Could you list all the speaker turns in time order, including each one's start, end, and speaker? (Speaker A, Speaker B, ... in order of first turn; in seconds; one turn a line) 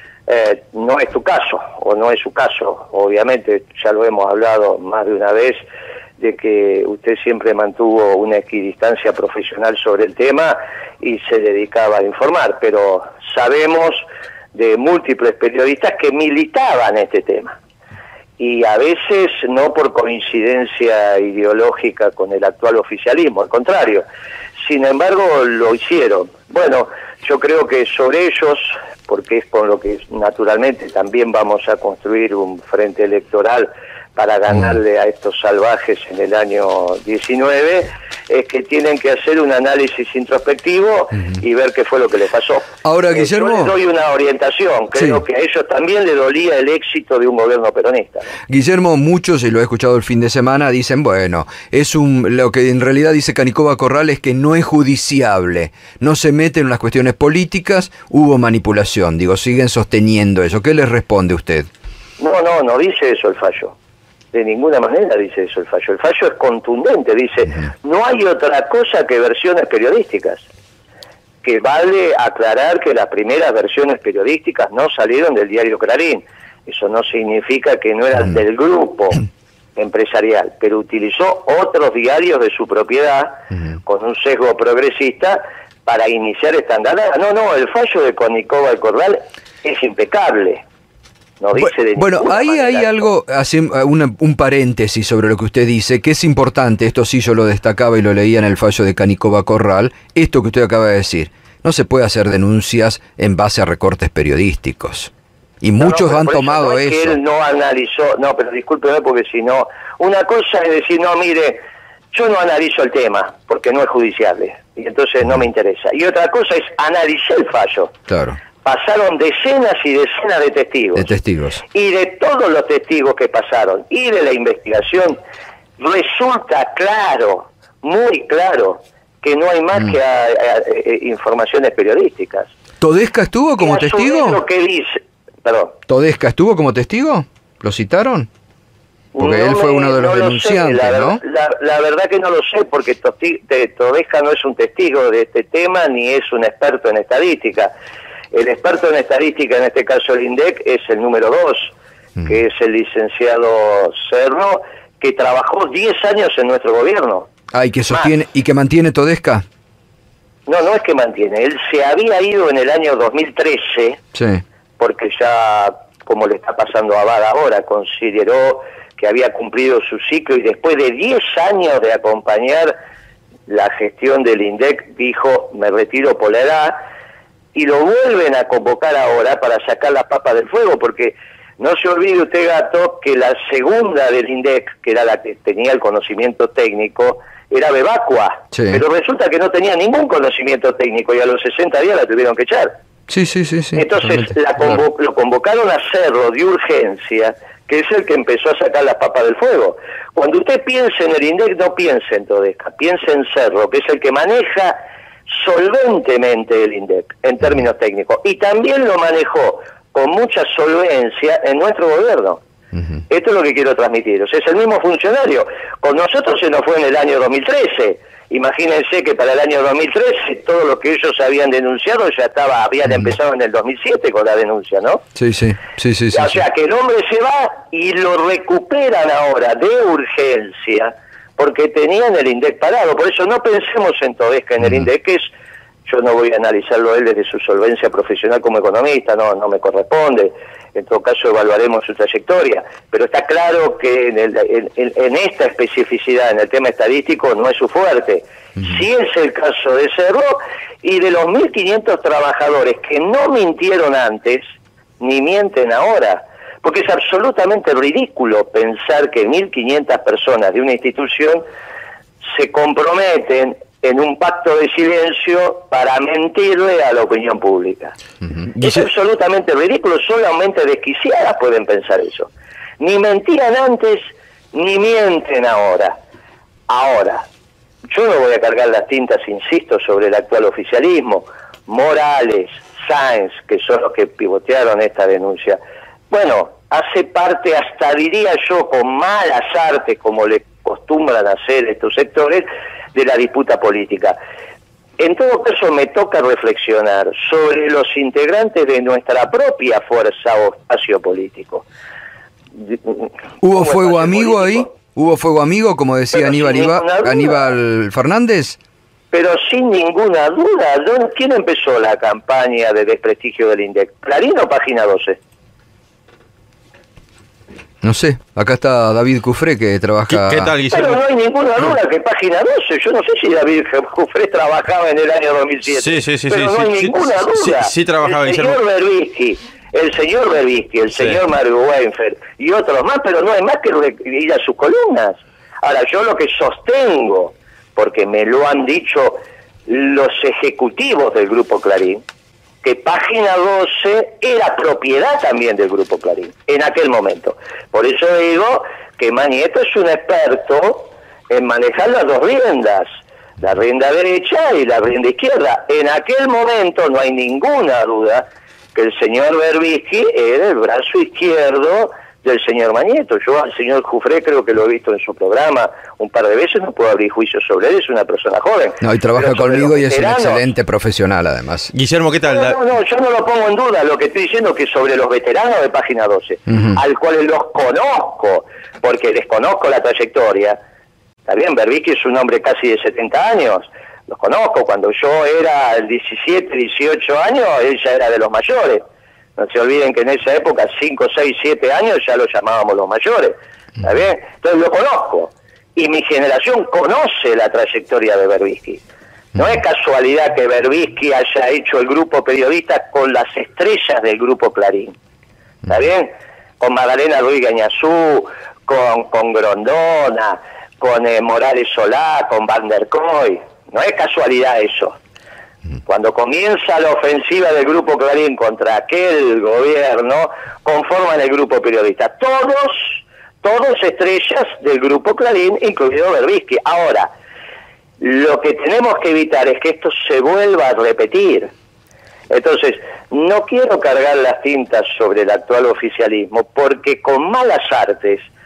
Speaker A: 0.3-5.7
Speaker A: 6.2-17.6
Speaker A: 18.4-24.0
Speaker A: 24.6-48.3
Speaker B: 42.8-43.7
Speaker B: 48.5-61.7
Speaker A: 62.2-63.8
Speaker A: 64.3-70.4
Speaker A: 71.4-79.2
Speaker A: 79.8-90.6
Speaker A: 91.4-93.1
Speaker B: 91.6-105.1
Speaker B: 105.6-107.2
Speaker A: 105.8-117.9
Speaker B: 118.1-118.4
Speaker A: 118.6-121.1
Speaker B: 121.0-121.6
Speaker A: 121.7-125.2
Speaker A: 125.8-132.5
Speaker B: 132.8-134.4
Speaker A: 133.6-135.8
Speaker B: 135.9-138.3
Speaker A: 139.1-147.7
Speaker B: 139.2-141.2
Speaker A: 148.3-157.3
Speaker B: 157.5-159.4
Speaker A: 160.5-164.0
Speaker B: 164.1-164.4
Speaker A: 164.8-172.8
Speaker A: 173.5-176.8
Speaker A: 177.6-192.8
Speaker B: 188.5-188.8
Speaker B: 193.1-194.8
Speaker A: 193.8-212.4
Speaker A: 213.1-225.0
Speaker B: 225.2-226.4
Speaker A: 226.1-235.2
Speaker A: 235.9-254.4
Speaker A: 255.0-261.4
Speaker A: 262.3-267.9
Speaker C: 268.6-268.8
Speaker A: 268.6-276.0
Speaker A: 276.7-277.2
Speaker A: 277.9-294.2
Speaker A: 295.0-301.6
Speaker A: 302.6-304.7
Speaker B: 303.4-308.6
Speaker A: 306.1-307.5
Speaker A: 309.1-315.2
Speaker B: 317.8-320.5
Speaker C: 320.1-321.0
Speaker A: 320.7-342.0
Speaker C: 325.7-328.6
Speaker A: 342.6-352.9
Speaker A: 353.4-370.4
Speaker B: 368.8-371.7
Speaker C: 371.7-372.6
Speaker A: 372.2-380.6
Speaker A: 381.2-388.8
Speaker A: 389.4-398.8
Speaker A: 399.4-404.9
Speaker A: 405.6-415.0
Speaker A: 415.9-427.1
Speaker A: 428.0-431.5
Speaker A: 432.3-438.2